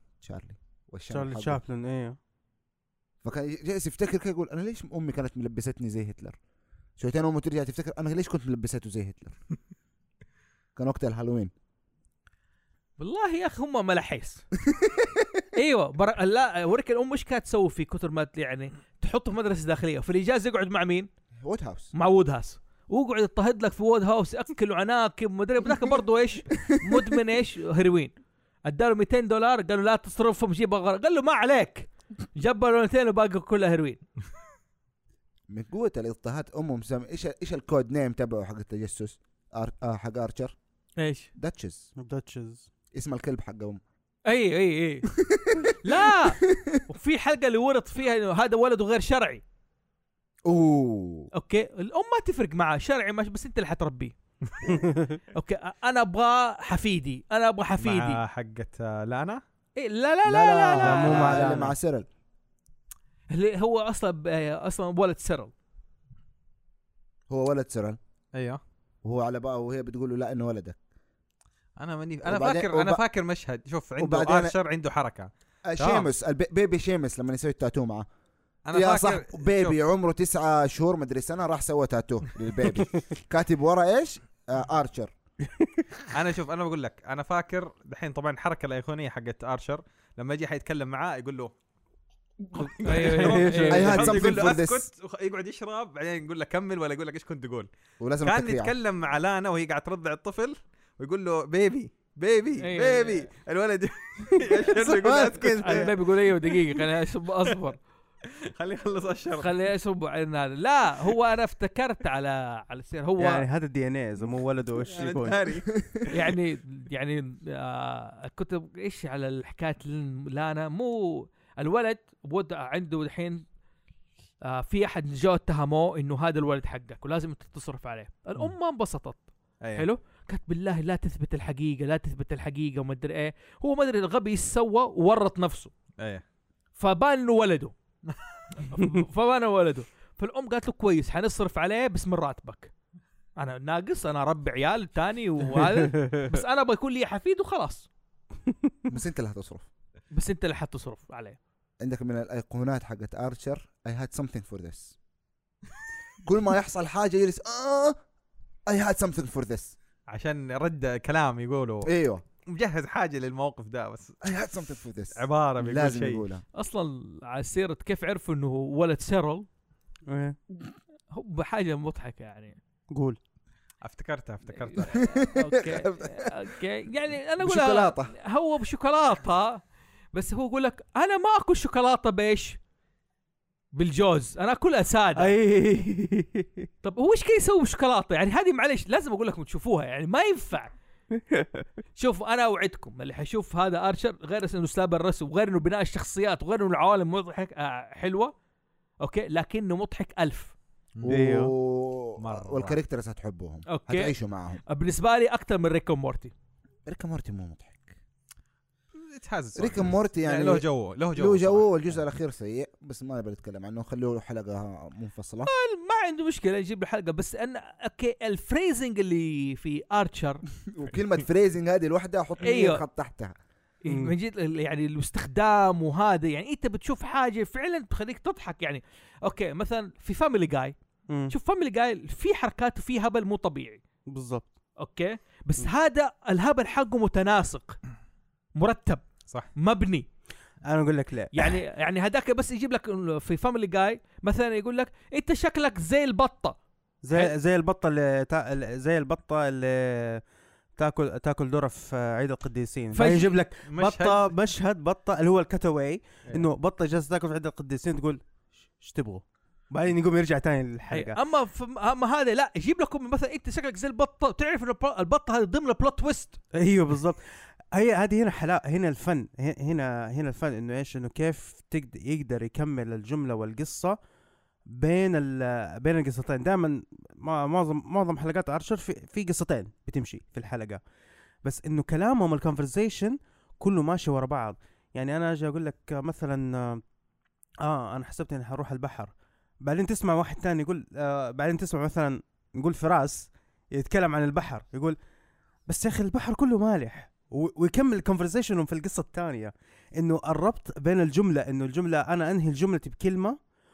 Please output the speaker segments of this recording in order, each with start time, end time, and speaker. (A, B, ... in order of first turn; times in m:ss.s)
0:00.2-0:01.6 A
0:01.1-0:02.2 B
0:03.2-0:06.4 A
0:07.0-0:09.4 A
0:10.8-0:11.5 A
0:13.0-0:14.4 C
0:14.7-0:15.2 A
0:15.5-0:21.1 C
0:21.4-0:21.9 A
0:21.9-0:28.1 C
0:28.6-0:34.0 C
0:35.5-0:40.5 A
0:41.0-0:41.3 C
0:41.4-0:41.9 A
0:42.0-0:42.6 B
0:42.9-0:43.8 A
0:44.3-0:45.1 C
0:45.1-0:46.8 A
0:45.8-0:49.4 C
0:50.4-0:51.3 A
0:51.3-0:54.1 C
0:54.7-0:55.2 B
0:55.3-0:58.2 C
0:57.8-0:59.4 D
0:59.8-1:01.5 C
1:00.3-1:02.1 A
1:00.8-1:01.7 B
1:03.3-1:05.5 C
1:07.3-1:08.0 A
1:08.3-1:08.6 D
1:09.0-1:10.8 A
1:11.8-1:16.1 D
1:12.2-1:13.0 A
1:14.0-1:14.5 A
1:15.6-1:18.1 A
1:18.7-1:19.8 D
1:18.7-1:25.1 A
1:26.1-1:31.5 D
1:32.6-1:37.7 D
1:32.8-1:34.4 C
1:32.9-1:34.0 B
1:33.7-1:34.9 A
1:38.0-1:38.7 A
1:38.2-1:45.9 D
1:42.6-1:43.3 C
1:44.4-1:45.9 B
1:45.6-1:47.8 C
1:48.5-1:49.5 D
1:49.4-1:53.4 C
1:53.2-1:55.4 B
1:54.8-1:56.2 D
1:55.7-1:56.1 A
1:56.1-2:03.4 C
2:04.4-2:15.7 C
2:09.6-2:09.8 D
2:16.8-2:17.7 C
2:18.7-2:22.7 C
2:23.4-2:27.9 C
2:25.6-2:26.2 B
2:28.9-2:29.7 A
2:30.1-2:31.4 C
2:31.8-2:35.0 A
2:36.2-2:38.0 A
2:38.7-2:39.7 A
2:40.1-2:41.9 D
2:41.8-2:42.2 A
2:42.4-2:44.2 D
2:44.2-2:46.4 A
2:45.1-2:46.3 D
2:46.6-2:49.5 C
2:50.1-2:50.4 B
2:51.1-2:52.6 C
2:52.9-2:53.2 B
2:53.8-2:55.0 D
2:54.6-2:59.6 C
2:55.0-2:56.3 A
2:57.4-2:58.1 A
3:00.1-3:02.6 C
3:03.7-3:05.4 C
3:05.2-3:06.6 B
3:06.8-3:10.7 C
3:11.3-3:11.6 B
3:12.0-3:18.3 C
3:19.0-3:20.5 C
3:21.0-3:24.6 A
3:21.1-3:21.5 B
3:22.2-3:22.8 D
3:23.7-3:24.1 C
3:24.7-3:26.3 C
3:26.9-3:27.9 A
3:28.9-3:32.0 D
3:29.6-3:35.5 A
3:35.4-3:40.4 C
3:40.7-3:43.3 A
3:42.4-3:42.8 C
3:43.8-3:50.7 C
3:43.9-3:44.1 B
3:51.1-3:51.3 B
3:51.3-3:53.8 C
3:54.1-3:54.5 B
3:54.8-3:57.8 C
3:58.6-4:00.0 C
4:00.6-4:01.6 B
4:01.3-4:06.6 C
4:07.0-4:10.2 B
4:10.8-4:18.2 B
4:12.9-4:13.4 C
4:13.6-4:14.3 D
4:18.8-4:21.2 B
4:20.9-4:26.4 C
4:26.5-4:27.2 B
4:27.7-4:34.0 B
4:34.7-4:40.8 B
4:41.4-4:46.8 B
4:47.6-4:55.0 B
4:55.7-5:03.4 B